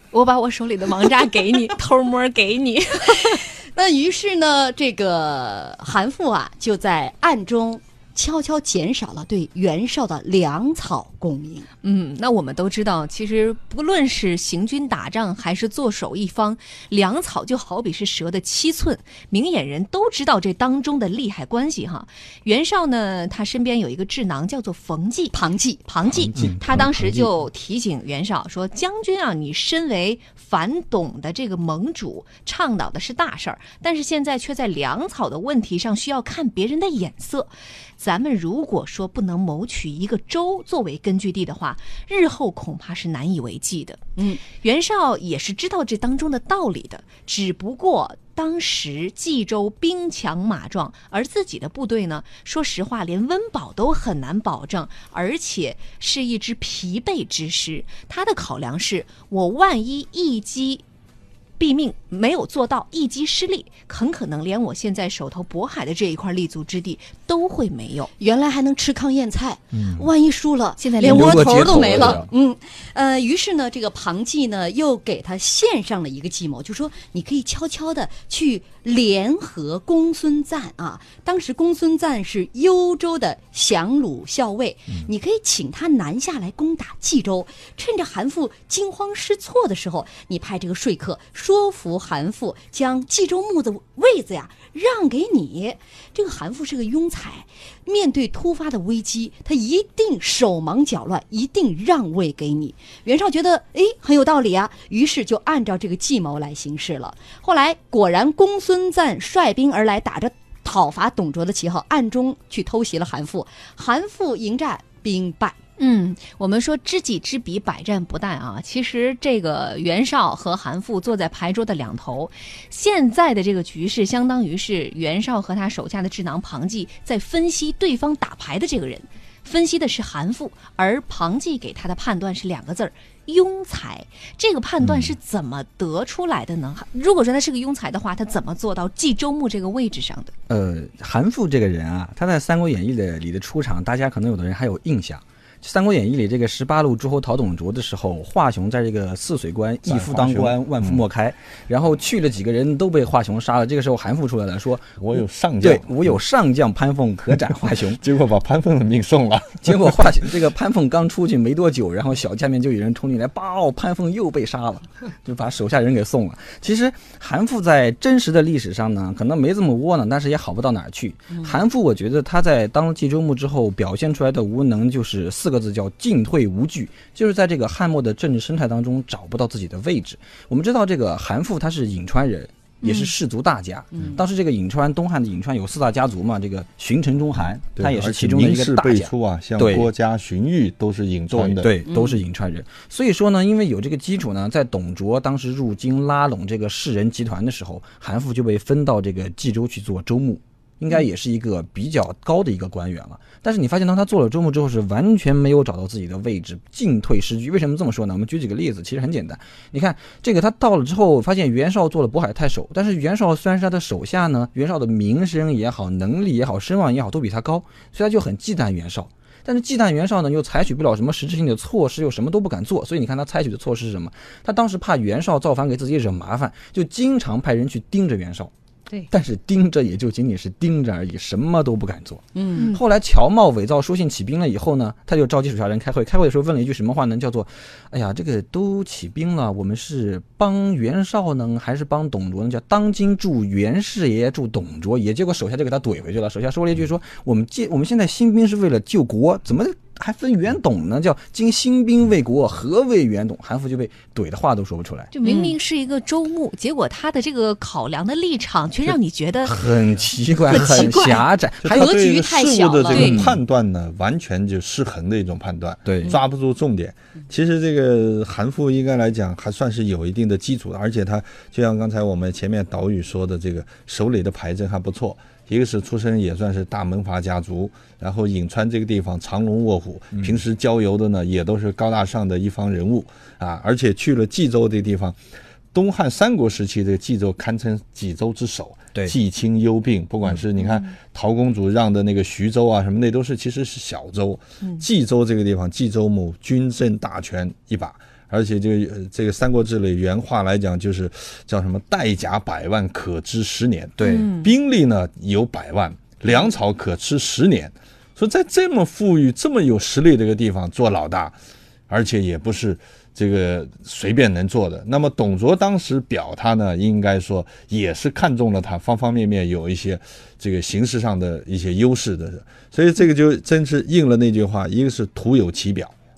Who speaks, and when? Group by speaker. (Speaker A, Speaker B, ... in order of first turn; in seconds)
Speaker A: 0.1-3.4, 11.8-60.8, 61.6-68.1, 70.8-72.1, 115.8-140.3, 182.8-183.1, 255.1-259.6, 260.5-261.1, 262.9-263.2, 304.0-304.5
Speaker B: 3.7-11.7, 25.3-25.8, 44.2-44.4, 68.2-115.6, 191.9-192.2, 232.3-232.7, 255.2-255.5, 260.7-261.1, 261.7-263.2
Speaker C: 26.1-27.3, 69.7-70.1, 71.0-72.3, 140.5-158.0, 159.6-189.9, 191.3-228.5, 229.1-255.1, 259.4-262.0, 262.9-263.4, 265.9-266.2, 304.0-304.3
Speaker D: 149.8-151.0, 155.0-156.2, 157.9-159.9, 187.8-191.7, 260.5-260.9, 261.6-285.2, 285.7-311.4, 311.9-325.9